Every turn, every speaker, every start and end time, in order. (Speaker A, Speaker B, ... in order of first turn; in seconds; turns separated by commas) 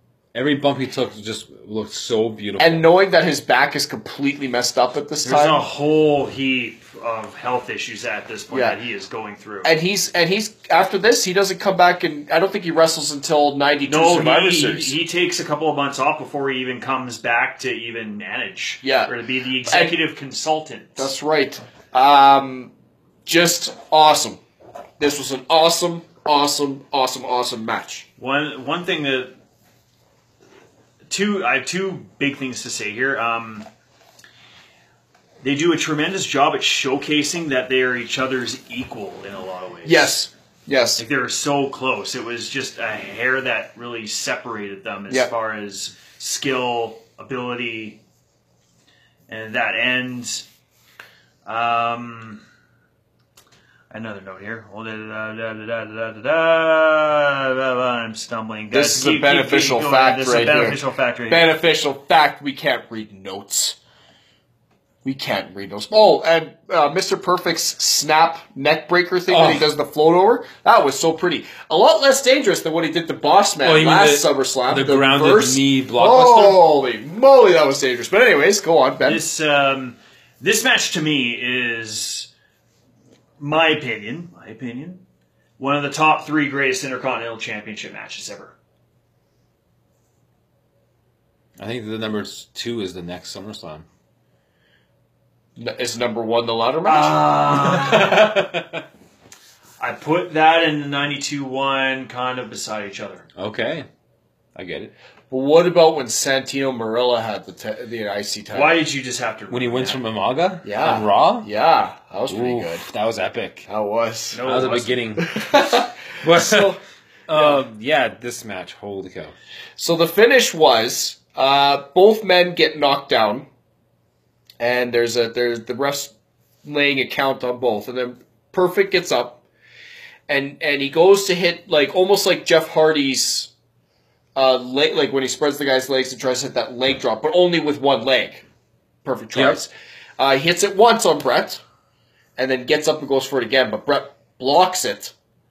Speaker A: 0.3-2.9, Speaker B: 2.6-5.6, Speaker C: 5.2-9.7, Speaker B: 8.5-8.8, Speaker B: 9.6-15.0, Speaker C: 13.9-21.1, Speaker B: 18.8-19.1, Speaker B: 19.7-20.0, Speaker B: 21.0-22.7, Speaker B: 23.2-24.4, Speaker B: 25.0-28.1, Speaker C: 28.2-29.3, Speaker C: 31.1-33.7, Speaker C: 35.4-40.2, Speaker B: 39.9-41.0, Speaker C: 41.0-48.0, Speaker C: 49.3-50.5, Speaker C: 51.5-52.4, Speaker C: 53.9-61.5, Speaker B: 58.7-63.8, Speaker B: 65.0-79.2, Speaker A: 69.3-69.7, Speaker A: 73.6-76.7, Speaker C: 79.0-82.3, Speaker C: 83.4-85.0, Speaker C: 85.6-88.5, Speaker A: 91.6-93.8, Speaker B: 95.6-97.8, Speaker C: 96.9-98.3, Speaker A: 97.7-98.8, Speaker C: 99.8-103.3, Speaker A: 103.4-103.9, Speaker A: 104.5-104.9, Speaker B: 105.3-108.8, Speaker C: 108.5-110.0, Speaker A: 109.5-111.5, Speaker B: 110.6-112.8, Speaker A: 112.3-113.7, Speaker B: 113.7-114.4, Speaker C: 114.3-115.0, Speaker A: 114.4-116.8, Speaker B: 115.2-116.8, Speaker A: 117.3-119.3, Speaker B: 117.3-117.6, Speaker B: 119.8-123.5, Speaker B: 124.6-126.1, Speaker B: 126.6-129.4, Speaker B: 130.3-133.5, Speaker B: 134.3-138.4, Speaker B: 139.0-141.6, Speaker A: 139.3-139.6, Speaker B: 142.4-145.1